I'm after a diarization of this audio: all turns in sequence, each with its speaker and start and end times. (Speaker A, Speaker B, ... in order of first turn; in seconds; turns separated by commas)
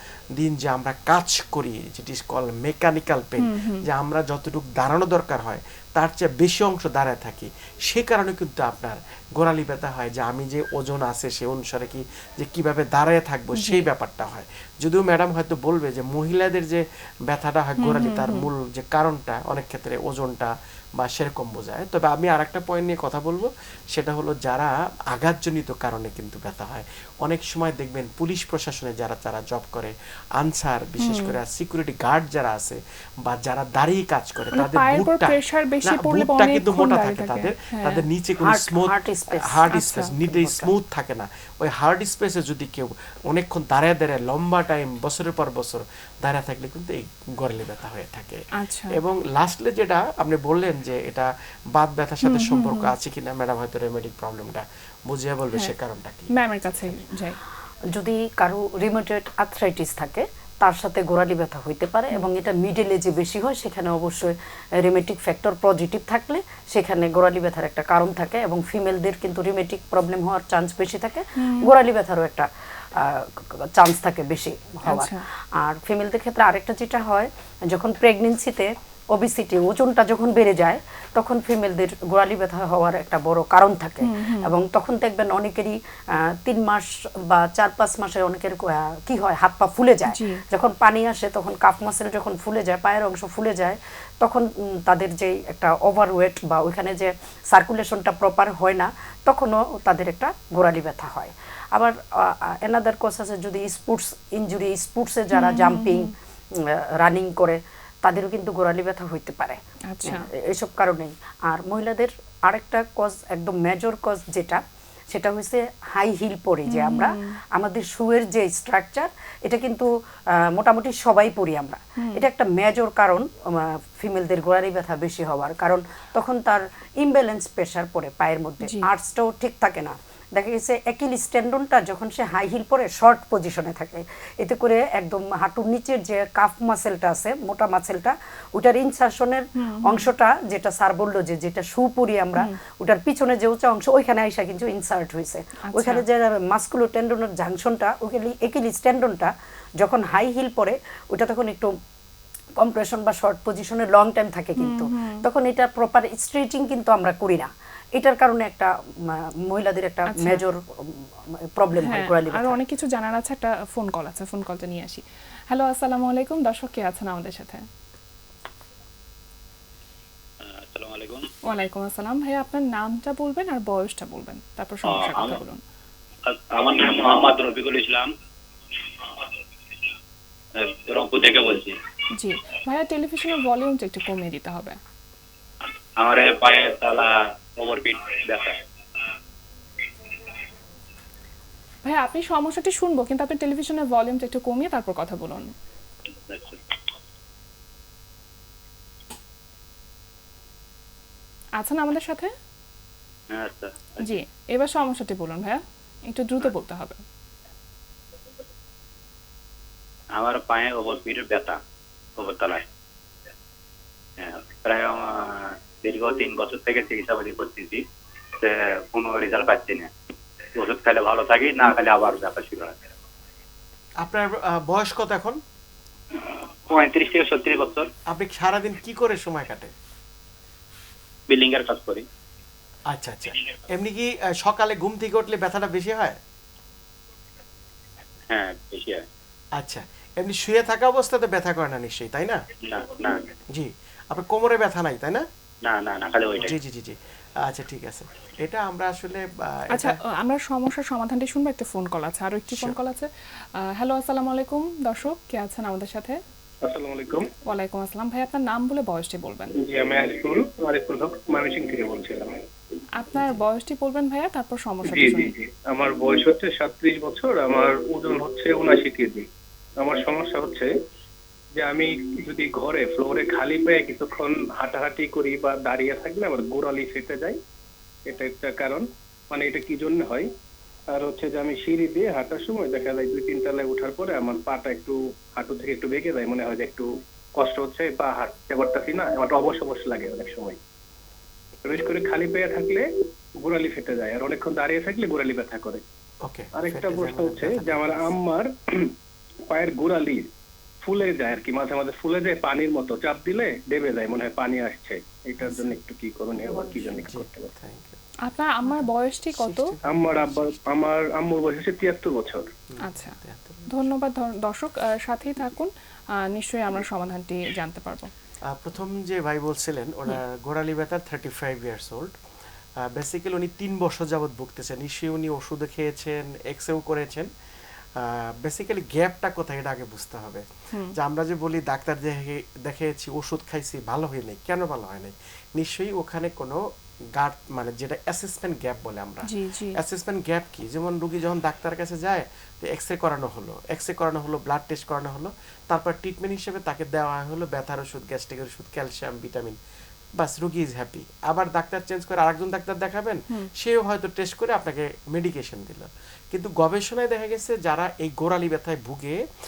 Speaker A: 0.4-56.9, Speaker B: 3.4-3.8, Speaker B: 13.6-13.9, Speaker B: 17.8-18.5, Speaker B: 31.0-31.3, Speaker B: 34.5-38.0, Speaker C: 38.5-39.7, Speaker B: 39.7-40.1, Speaker C: 40.2-40.7, Speaker B: 48.6-48.9, Speaker B: 52.2-52.9, Speaker B: 56.3-57.4, Speaker C: 57.9-151.7, Speaker B: 71.4-71.7, Speaker B: 74.8-75.2, Speaker B: 84.0-84.5, Speaker B: 90.1-90.4, Speaker B: 105.3-106.1, Speaker B: 109.9-110.3, Speaker B: 116.7-117.4, Speaker B: 122.0-122.2, Speaker B: 128.6-128.9, Speaker B: 139.6-140.1, Speaker B: 145.7-146.0, Speaker C: 152.6-162.6, Speaker B: 154.6-155.3, Speaker B: 160.1-160.4, Speaker B: 161.7-167.6, Speaker D: 170.4-171.3, Speaker B: 171.5-175.6, Speaker D: 174.8-175.4, Speaker D: 176.2-178.1, Speaker D: 180.5-181.8, Speaker B: 182.1-184.8, Speaker D: 186.0-188.6, Speaker B: 191.8-195.5, Speaker D: 196.3-196.6, Speaker B: 201.6-202.3, Speaker D: 203.3-204.0, Speaker B: 204.0-207.0, Speaker D: 210.1-211.6, Speaker D: 212.2-212.6, Speaker D: 214.2-217.8, Speaker D: 218.4-219.9, Speaker D: 220.6-222.8, Speaker A: 224.0-225.4, Speaker D: 226.1-227.9, Speaker A: 228.1-229.7, Speaker D: 231.3-232.0, Speaker A: 232.9-236.2, Speaker D: 238.3-239.0, Speaker A: 239.6-242.4, Speaker D: 242.6-243.3, Speaker A: 243.5-245.2, Speaker D: 245.6-246.6, Speaker A: 246.4-250.0, Speaker B: 249.7-256.2, Speaker A: 252.5-252.8, Speaker E: 256.6-257.3, Speaker B: 257.4-259.5, Speaker E: 259.6-262.4, Speaker B: 262.9-265.3, Speaker E: 264.9-269.3, Speaker E: 269.8-270.7, Speaker E: 271.6-277.4, Speaker E: 278.1-280.3, Speaker E: 280.9-290.6, Speaker E: 291.6-292.9, Speaker E: 293.4-295.8, Speaker A: 296.2-298.1, Speaker E: 296.6-298.9, Speaker E: 299.5-300.3, Speaker E: 300.8-307.5, Speaker A: 305.4-305.8, Speaker A: 306.4-308.0, Speaker B: 308.2-309.7, Speaker A: 308.7-310.8, Speaker E: 309.9-312.5, Speaker A: 312.7-313.7, Speaker B: 312.8-318.1, Speaker A: 318.5-322.1, Speaker A: 322.8-327.3, Speaker A: 328.0-336.6, Speaker A: 337.1-349.6, Speaker B: 339.3-339.8, Speaker A: 350.2-359.2